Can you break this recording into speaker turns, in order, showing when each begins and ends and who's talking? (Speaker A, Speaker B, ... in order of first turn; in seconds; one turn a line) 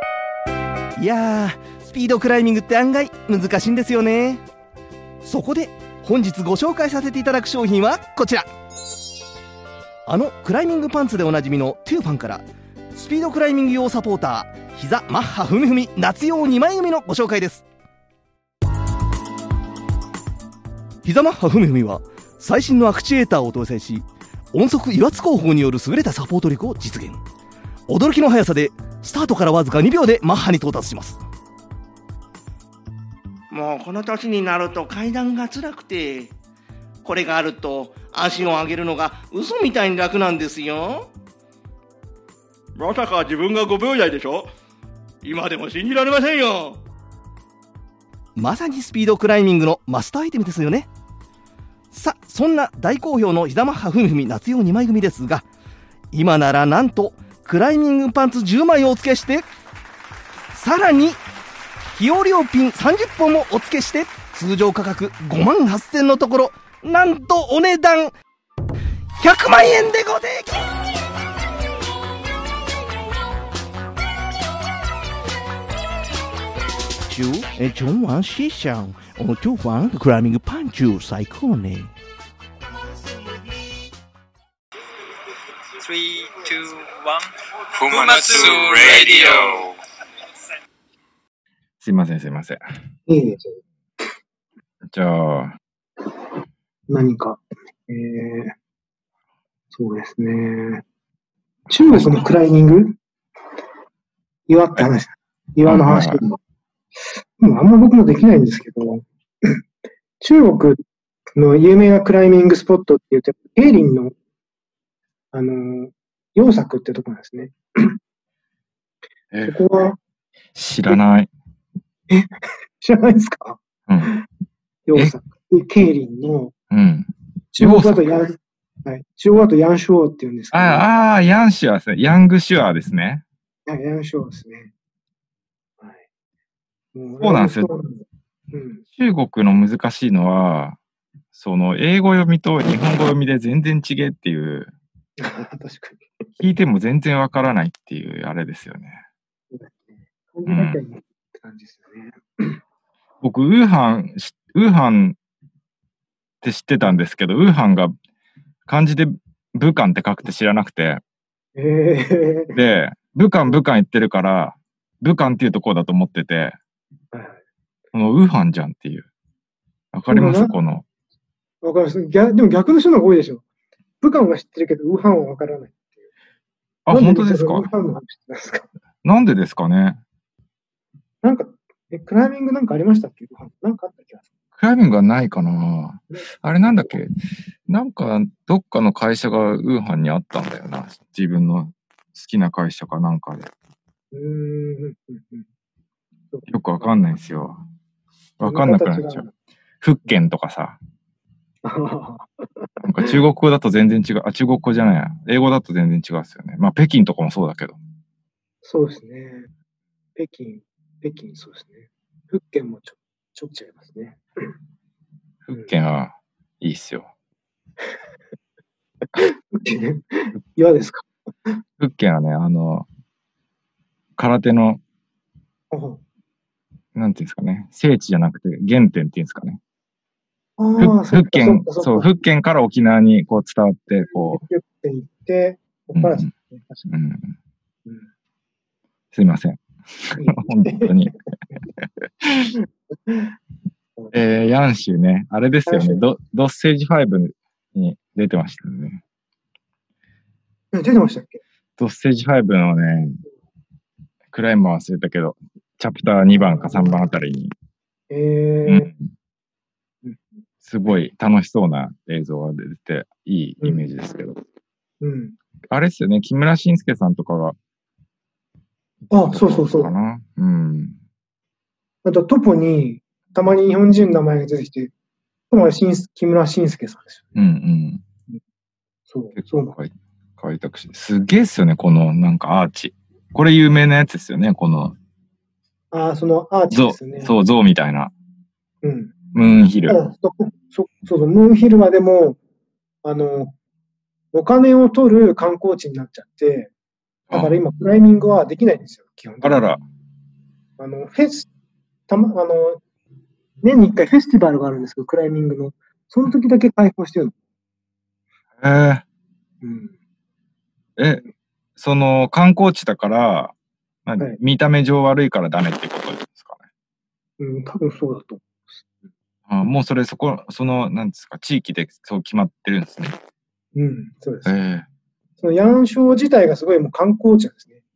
Speaker A: 1.0-4.4
Speaker A: 5.2-8.5
Speaker A: 10.1-17.6
Speaker A: 21.0-27.2
Speaker A: 27.9-31.2
Speaker A: 33.5-36.3
Speaker A: 37.0-41.1
Speaker A: 42.8-44.5
Speaker A: 45.2-46.8
Speaker A: 48.4-50.9
Speaker A: 51.9-55.5
Speaker A: 56.1-59.5
Speaker A: 60.5-61.2
Speaker A: 62.0-68.1
Speaker A: 69.2-70.7
Speaker A: 77.1-81.9
Speaker B: 85.8-89.8
Speaker C: 91.8-92.6
Speaker D: 93.1-93.6
Speaker C: 94.9-95.6
Speaker D: 96.9-98.5
Speaker D: 99.7-100.8
Speaker D: 101.7-103.0
Speaker C: 101.7-102.2
Speaker D: 104.5-106.4
Speaker C: 105.7-106.2
Speaker D: 107.4-109.6
Speaker D: 110.2-110.8
Speaker D: 111.4-114.1
Speaker D: 115.3-118.0
Speaker D: 119.5-120.0
Speaker C: 120.5-121.3
Speaker D: 122.8-124.2
Speaker C: 123.9-124.2
Speaker D: 124.9-126.5
Speaker C: 126.7-128.1
Speaker D: 127.5-130.9
Speaker C: 130.5-133.2
Speaker D: 133.7-134.7
Speaker D: 136.9-138.8
Speaker C: 137.2-137.7
Speaker C: 138.9-140.8
Speaker C: 141.3-144.7
Speaker D: 145.2-146.1
Speaker C: 146.4-149.0
Speaker D: 149.5-149.8
Speaker D: 150.3-152.6
Speaker C: 150.5-150.8
Speaker C: 153.2-155.2
Speaker C: 156.4-157.9
Speaker C: 158.7-161.0
Speaker D: 161.6-162.5
Speaker C: 162.6-166.6
Speaker D: 167.1-167.4
Speaker C: 167.9-169.1
Speaker C: 169.9-170.8
Speaker D: 170.1-170.6
Speaker D: 171.6-173.4
Speaker D: 174.0-175.8
Speaker C: 176.9-177.7
Speaker D: 176.9-178.7
Speaker C: 179.0-180.0
Speaker D: 181.2-184.2
Speaker C: 184.6-187.1
Speaker C: 187.7-193.5
Speaker D: 194.1-195.4
Speaker C: 196.5-197.6
Speaker C: 198.4-199.2
Speaker D: 198.4-199.3
Speaker C: 199.8-200.8
Speaker D: 201.6-203.1
Speaker C: 202.8-207.8
Speaker D: 208.6-209.5
Speaker D: 210.2-214.5
Speaker C: 215.5-217.1
Speaker D: 219.2-221.5
Speaker C: 221.8-222.9
Speaker C: 224.2-224.8
Speaker D: 225.7-226.0
Speaker C: 226.9-229.6
Speaker D: 230.6-232.1
Speaker C: 230.8-234.4
Speaker D: 234.3-236.9
Speaker C: 235.9-236.3
Speaker C: 236.9-237.4
Speaker C: 239.1-241.2
Speaker D: 240.2-240.9
Speaker C: 241.8-242.5
Speaker D: 242.6-243.3
Speaker C: 244.1-249.0
Speaker D: 245.7-246.0
Speaker D: 250.7-251.4
Speaker C: 251.8-253.2
Speaker C: 254.3-257.5
Speaker D: 256.3-257.0
Speaker D: 258.1-258.9
Speaker C: 258.7-259.0
Speaker C: 260.6-264.4
Speaker D: 263.6-263.9
Speaker D: 265.0-265.4
Speaker C: 265.7-267.6
Speaker C: 269.1-271.0
Speaker D: 269.1-269.9
Speaker D: 272.0-274.9
Speaker D: 275.5-277.3
Speaker C: 277.4-278.0
Speaker D: 279.1-279.8
Speaker C: 279.4-285.0
Speaker D: 285.9-287.3
Speaker C: 286.7-288.1
Speaker D: 288.8-289.1
Speaker C: 289.3-290.0
Speaker D: 289.9-292.4
Speaker D: 293.0-293.6
Speaker D: 294.3-296.7
Speaker C: 297.3-297.6
Speaker D: 297.3-299.6
Speaker C: 299.4-299.8
Speaker D: 300.8-301.5
Speaker D: 302.1-302.8
Speaker D: 303.6-307.4
Speaker C: 308.6-309.0
Speaker D: 309.6-309.9
Speaker C: 311.0-311.2
Speaker C: 311.8-313.6
Speaker C: 314.1-316.6
Speaker D: 317.4-318.8
Speaker C: 319.5-323.2
Speaker D: 323.8-324.6
Speaker C: 324.5-324.9
Speaker D: 325.4-327.8